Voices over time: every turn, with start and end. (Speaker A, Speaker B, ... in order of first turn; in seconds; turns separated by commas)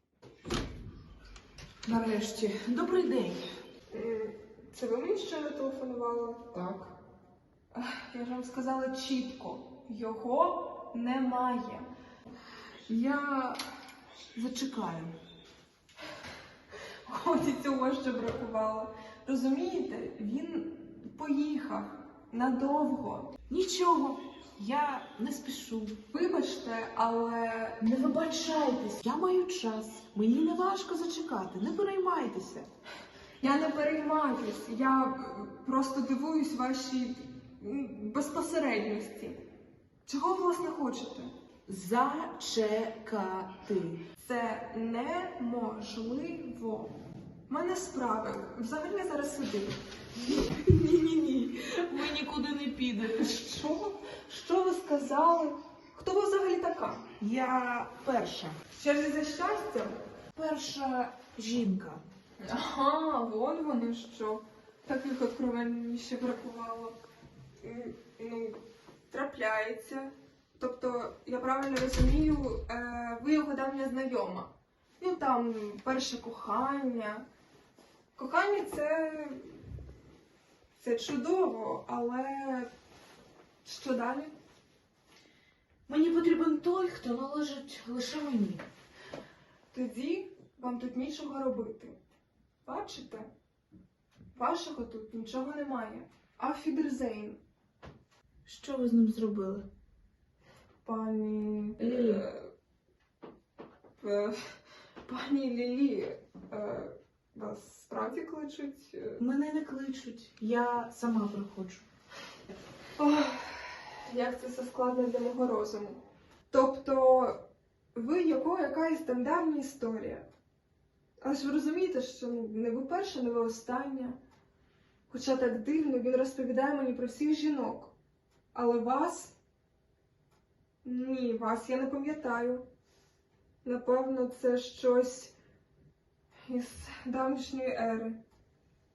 Speaker A: 1.8-3.5, Speaker B: 3.9-6.9, Speaker B: 7.7-11.9, Speaker A: 12.9-13.6, Speaker A: 14.3-15.2, Speaker B: 17.1-23.3, Speaker A: 23.5-25.9, Speaker B: 26.1-27.8, Speaker A: 27.8-32.7, Speaker B: 33.4-39.4, Speaker B: 40.0-41.3, Speaker A: 41.7-44.0, Speaker B: 44.2-46.9, Speaker B: 47.5-49.8, Speaker A: 50.4-53.4, Speaker B: 53.0-57.1, Speaker A: 57.2-58.5, Speaker B: 58.7-60.0, Speaker A: 60.3-62.0, Speaker B: 62.4-67.0, Speaker B: 67.6-77.2, Speaker B: 78.2-79.5, Speaker B: 80.8-82.7, Speaker B: 83.6-84.3, Speaker A: 85.9-88.6, Speaker B: 89.7-92.0, Speaker B: 92.6-93.3, Speaker B: 94.3-97.4, Speaker A: 98.5-99.7, Speaker B: 100.8-102.5, Speaker A: 101.8-102.3, Speaker B: 104.0-104.3, Speaker B: 105.0-109.2, Speaker A: 109.2-111.8, Speaker B: 113.0-117.4, Speaker B: 117.9-120.2, Speaker B: 121.2-124.2, Speaker B: 125.1-127.9, Speaker B: 128.5-129.3, Speaker B: 130.8-132.6, Speaker B: 133.6-135.3, Speaker B: 136.5-138.2